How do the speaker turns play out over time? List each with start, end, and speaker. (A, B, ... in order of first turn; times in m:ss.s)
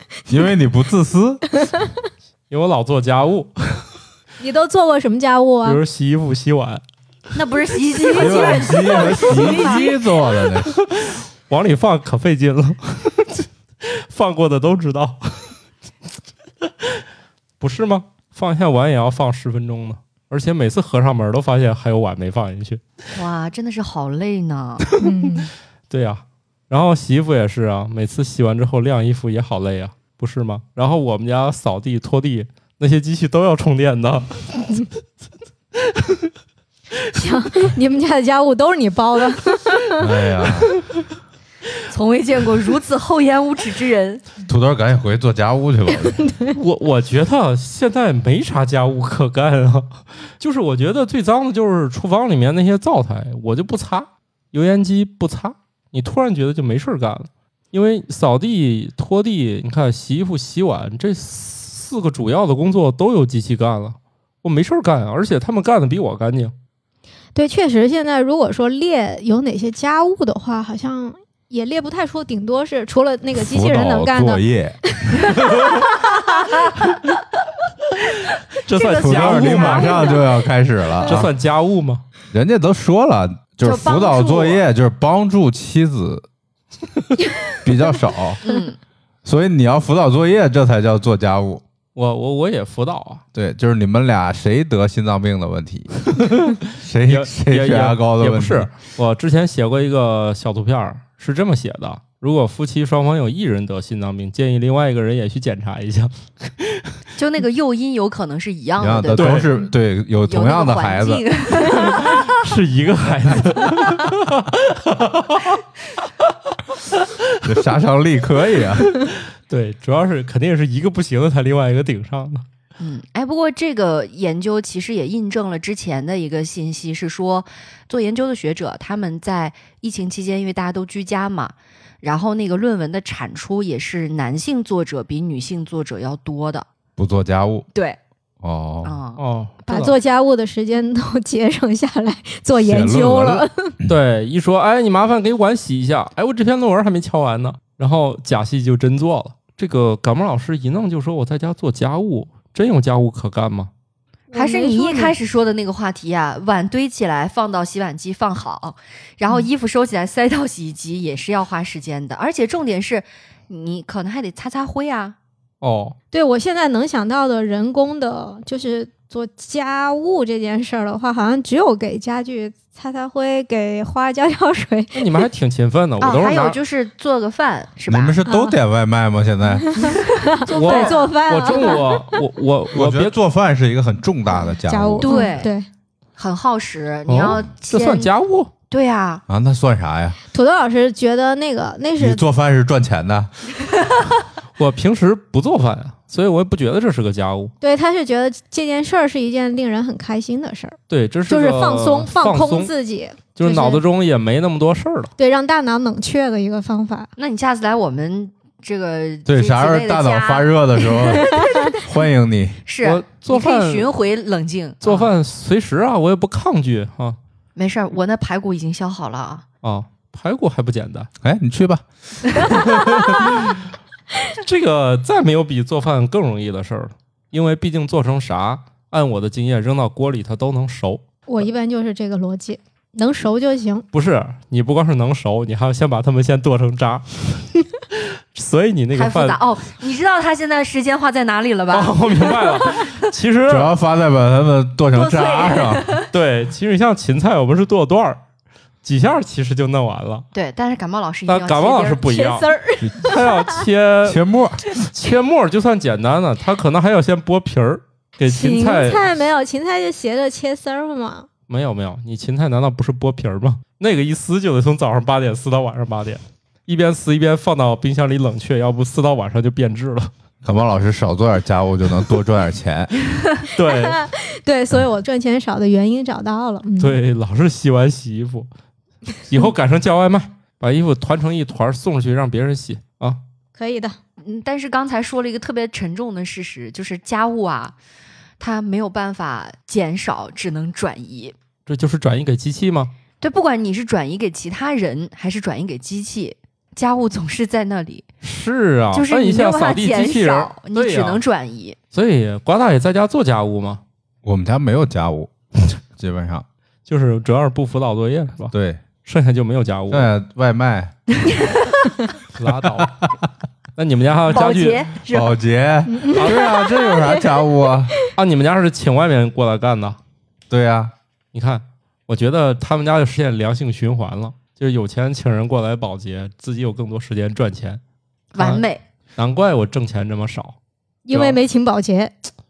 0:00.3-0:01.4 A
0:02.5-0:03.8 B
0:04.4-0:05.8 C
0:05.6-0:06.8 B
0:07.3-0:09.9 D
0:08.1-0:10.3 C
0:08.1-0:10.7 A
0:10.7-0:15.6 B
0:17.6-0:22.8 B
0:23.1-0:24.9 D
0:25.0-0:25.5 C
0:25.9-0:34.9 B
0:35.8-0:36.3 B
0:37.1-0:40.6 C
0:40.0-0:40.7 A
0:41.9-0:44.2 D
0:44.4-0:46.2 A
0:46.2-0:46.6 C
0:46.5-1:06.5 B
1:07.3-1:16.7 C
1:13.3-1:15.3 A
1:15.5-1:15.8 B
1:18.3-1:20.1 B
1:18.7-1:20.2 D
1:18.8-1:21.3 A
1:21.0-1:22.0 B
1:22.3-1:26.2 A
1:23.6-1:24.6 D
1:27.6-1:28.4 A
1:28.4-1:28.8 D
1:29.2-1:31.6 A
1:31.9-1:33.2 B
1:33.3-1:38.7 A
1:36.3-1:46.9 B
1:47.2-1:49.5 D
1:48.8-1:51.2 A
1:49.1-1:49.5 B
1:50.2-1:52.3 D
1:51.7-1:55.6 B
1:56.9-1:57.5 B
1:57.4-1:59.0 A
1:58.8-2:02.4 B
2:02.8-2:16.6 D
2:17.0-2:17.6 A
2:18.4-2:19.0 A
2:18.8-2:19.2 D
2:19.2-2:19.9 B
2:19.7-2:23.8 C
2:22.6-2:23.9 A
2:23.9-2:33.7 B
2:34.3-2:35.1 C
2:34.3-2:45.2 D
2:45.6-2:46.0 B
2:46.1-2:55.0 C
2:54.9-2:56.6 B
2:56.0-2:58.2 D
2:57.9-3:00.0 A
2:58.2-2:58.5 C
2:59.6-3:02.2 C
2:59.8-3:01.7 D
3:00.5-3:03.1 B
3:02.7-3:05.3 A
3:04.4-3:05.6 C
3:05.0-3:05.5 D
3:06.2-3:08.1 D
3:07.1-3:08.5 B
3:08.7-3:09.2 D
3:09.3-3:10.2 A
3:10.3-3:12.2 C
3:12.0-3:13.3 A
3:14.6-3:17.5 B
3:17.6-3:23.8 C
3:20.9-3:22.7 B
3:23.3-3:25.1 B
3:25.2-3:27.1 C
3:27.2-3:31.0 D
3:29.3-3:32.6 A
3:31.2-3:31.7 C
3:32.6-3:35.1 D
3:32.8-3:33.9 B
3:34.8-3:37.2 B
3:37.6-3:39.4 D
3:39.6-3:41.1 B
3:41.2-3:42.5 A
3:42.5-3:43.6 B
3:44.3-3:51.0 B
3:51.3-3:53.9 C
3:53.9-3:57.4 B
3:57.9-3:59.4 B
3:58.9-4:02.9 D
4:01.7-4:03.7 B
4:03.5-4:05.9 A
4:04.9-4:06.1 D
4:06.1-4:08.2 B
4:08.8-4:10.2 B
4:10.3-4:12.1 D
4:11.3-4:14.2 B
4:12.0-4:13.6 C
4:12.8-4:13.1 A
4:14.0-4:14.6 A
4:14.8-4:19.0 B
4:18.2-4:21.3 C
4:21.5-4:30.1 B
4:30.4-4:33.0 A
4:33.5-4:34.0 B
4:33.6-4:37.0 C
4:36.8-4:38.5 B
4:39.2-4:43.2 B
4:43.6-4:44.0 C
4:44.2-4:47.7 D
4:48.4-4:51.3 D
4:51.6-4:52.9 B
4:53.2-4:58.0 D
4:58.2-5:01.2 B
4:58.9-5:01.8 D
5:01.9-5:03.8 B
5:04.2-5:06.4 A
5:06.9-5:10.1 B
5:08.5-5:08.8 A
5:09.9-5:10.9 A
5:11.2-5:11.7 D
5:12.3-5:12.9 B
5:12.7-5:13.1 A
5:13.8-5:14.8 B
5:14.3-5:15.4 D
5:15.1-5:18.0 A
5:15.9-5:17.4 C
5:18.2-5:20.0 B
5:20.5-5:20.9 A
5:21.3-5:27.8 B
5:28.3-5:28.8 D
5:28.4-5:28.6 B
5:29.2-5:30.6 B
5:31.0-5:32.1 C
5:31.1-5:31.4 B